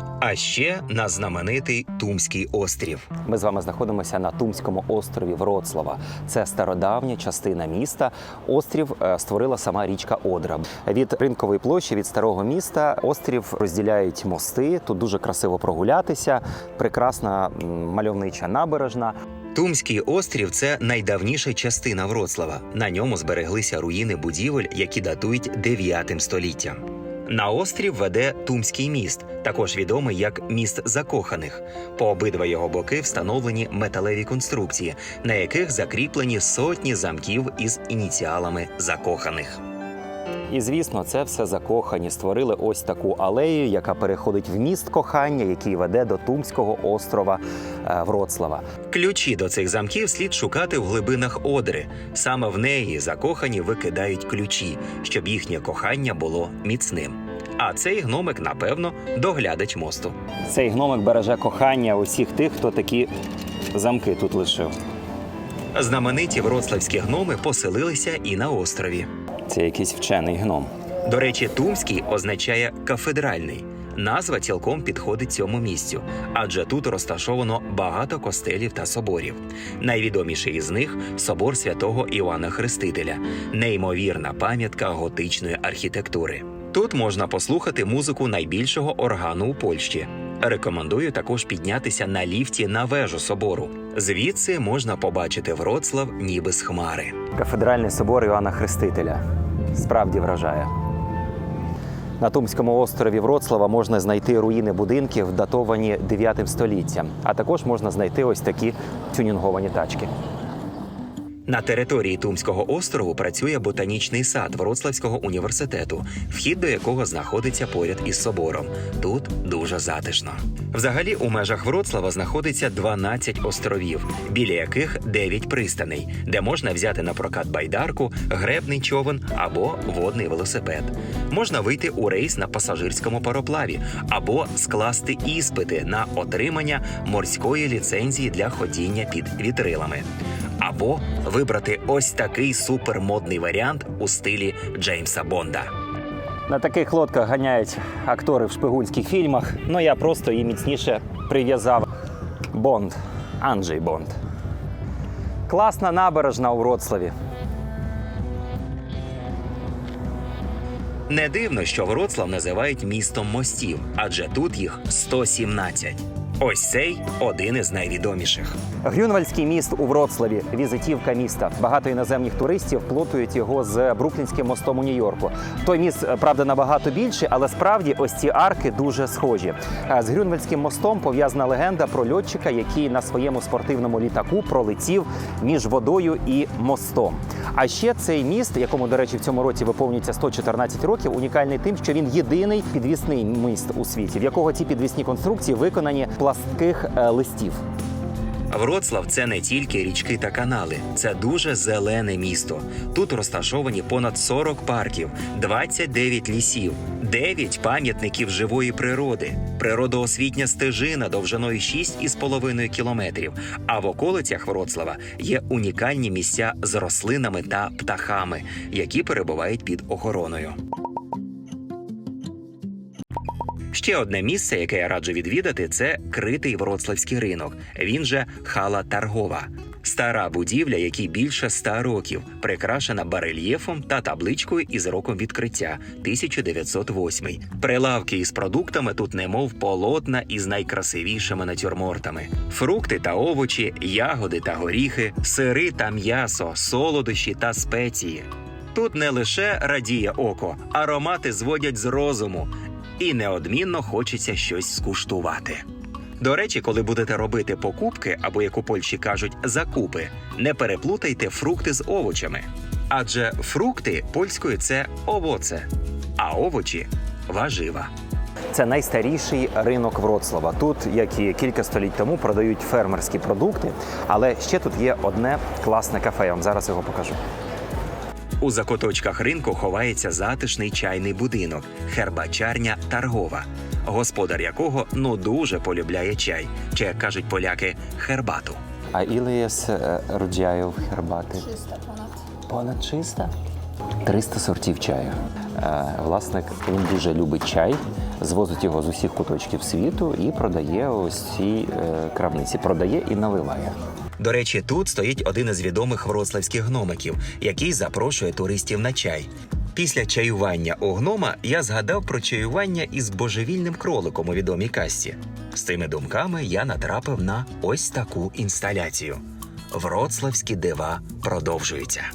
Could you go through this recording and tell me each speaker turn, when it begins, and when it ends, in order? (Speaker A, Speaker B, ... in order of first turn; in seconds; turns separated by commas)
Speaker A: 0.2-3.1, Speaker B: 3.2-19.1, Speaker A: 19.5-39.6, Speaker B: 40.5-48.6, Speaker A: 48.9-60.2, Speaker B: 60.5-63.1, Speaker B: 63.7-64.7, Speaker A: 65.7-69.1, Speaker B: 69.5-70.7, Speaker A: 71.0-97.2, Speaker B: 97.3-99.2, Speaker B: 99.7-100.7, Speaker B: 102.2-110.1, Speaker A: 111.5-140.1, Speaker A: 140.6-145.7, Speaker B: 146.5-151.9, Speaker B: 152.5-154.1, Speaker B: 155.5-157.1, Speaker A: 161.1-168.6, Speaker B: 168.8-197.6, Speaker A: 198.5-220.6, Speaker A: 223.7-255.6, Speaker A: 256.2-267.9, Speaker B: 268.5-277.2, Speaker A: 278.4-288.6, Speaker B: 288.9-291.6, Speaker B: 292.5-293.3, Speaker B: 294.0-303.8, Speaker A: 304.2-322.1